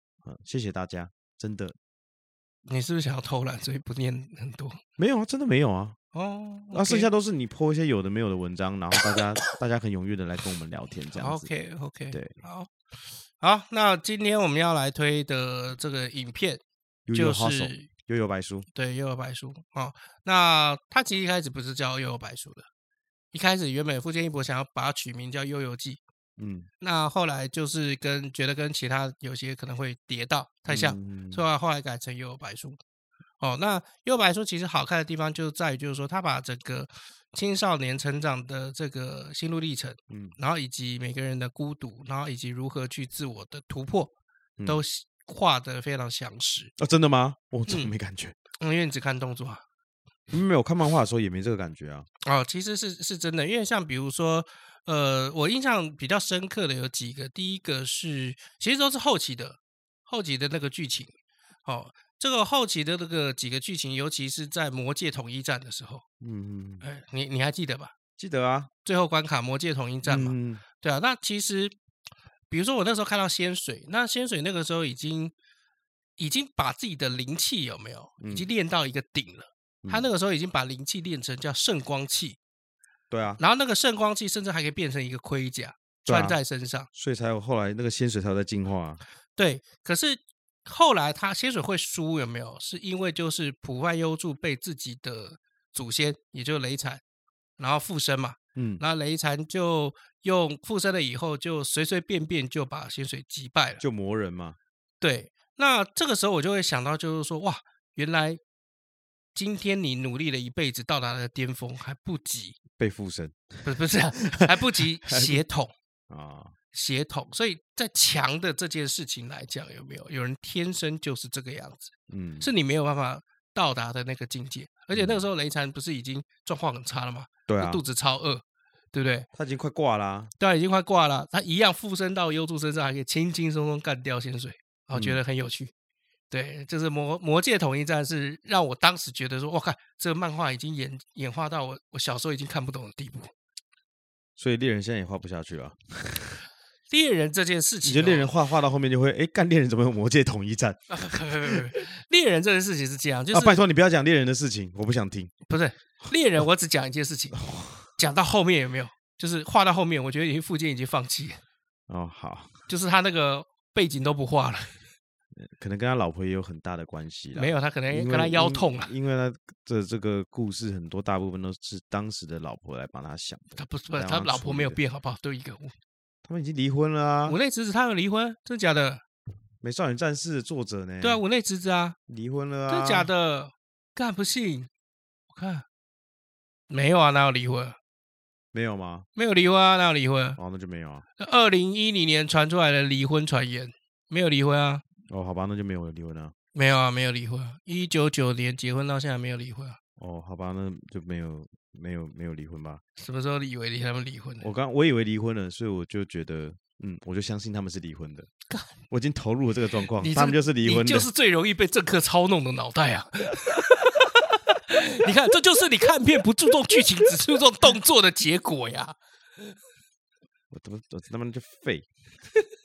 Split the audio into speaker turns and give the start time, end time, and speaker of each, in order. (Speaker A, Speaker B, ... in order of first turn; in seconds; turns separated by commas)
Speaker A: 0.2-1.8, Speaker B: 2.7-4.8, Speaker A: 5.0-6.0, Speaker B: 6.1-7.1, Speaker A: 6.7-11.5, Speaker B: 11.1-12.7, Speaker A: 12.1-12.4, Speaker B: 13.4-16.6, Speaker A: 17.1-18.7, Speaker B: 17.1-17.9, Speaker B: 18.7-22.7, Speaker B: 23.3-26.0, Speaker A: 26.4-26.7, Speaker B: 26.8-32.8, Speaker A: 30.7-31.5, Speaker B: 33.4-44.1, Speaker A: 40.1-40.4, Speaker B: 44.7-46.7, Speaker A: 46.8-48.4, Speaker B: 48.6-49.6, Speaker A: 50.3-52.1, Speaker B: 52.2-61.1, Speaker B: 61.6-66.0, Speaker A: 66.2-66.8, Speaker B: 66.8-67.9, Speaker A: 68.2-68.7, Speaker B: 68.8-71.8, Speaker A: 70.0-70.6, Speaker B: 72.5-75.3, Speaker B: 76.2-82.4, Speaker A: 78.2-78.5, Speaker A: 83.1-83.4, Speaker B: 83.4-86.9, Speaker A: 86.1-86.4, Speaker A: 86.9-89.0, Speaker B: 89.4-97.0, Speaker B: 97.6-103.8, Speaker A: 98.6-98.8, Speaker A: 103.8-104.6, Speaker B: 105.0-108.4, Speaker B: 109.3-112.6, Speaker A: 112.8-114.5, Speaker B: 113.6-115.7, Speaker A: 115.1-115.4, Speaker A: 116.1-116.5, Speaker B: 116.7-129.3, Speaker A: 122.1-122.5, Speaker A: 124.9-125.3, Speaker A: 127.5-127.8, Speaker A: 129.3-130.3, Speaker B: 130.4-135.7, Speaker A: 134.9-135.2, Speaker B: 136.3-143.3, Speaker A: 144.4-146.4, Speaker B: 146.9-148.3, Speaker A: 147.8-151.8, Speaker B: 150.9-153.6, Speaker A: 153.3-155.3, Speaker B: 155.5-161.4, Speaker A: 157.4-157.8, Speaker A: 161.9-162.6, Speaker B: 162.7-164.9, Speaker A: 165.4-174.8, Speaker B: 167.3-168.9, Speaker B: 173.6-175.8, Speaker A: 176.2-177.4, Speaker B: 177.3-179.0, Speaker A: 179.6-181.2, Speaker B: 181.0-182.0, Speaker A: 182.1-183.1, Speaker B: 182.7-184.7, Speaker B: 185.3-185.7, Speaker B: 186.7-187.8, Speaker A: 188.5-189.1, Speaker B: 189.2-190.4, Speaker A: 190.4-191.0, Speaker B: 191.2-194.8, Speaker A: 195.1-196.3, Speaker B: 196.5-199.8, Speaker A: 200.0-202.8, Speaker B: 203.0-204.5, Speaker A: 204.4-208.3, Speaker A: 208.9-211.1, Speaker B: 209.9-219.0, Speaker A: 220.5-221.9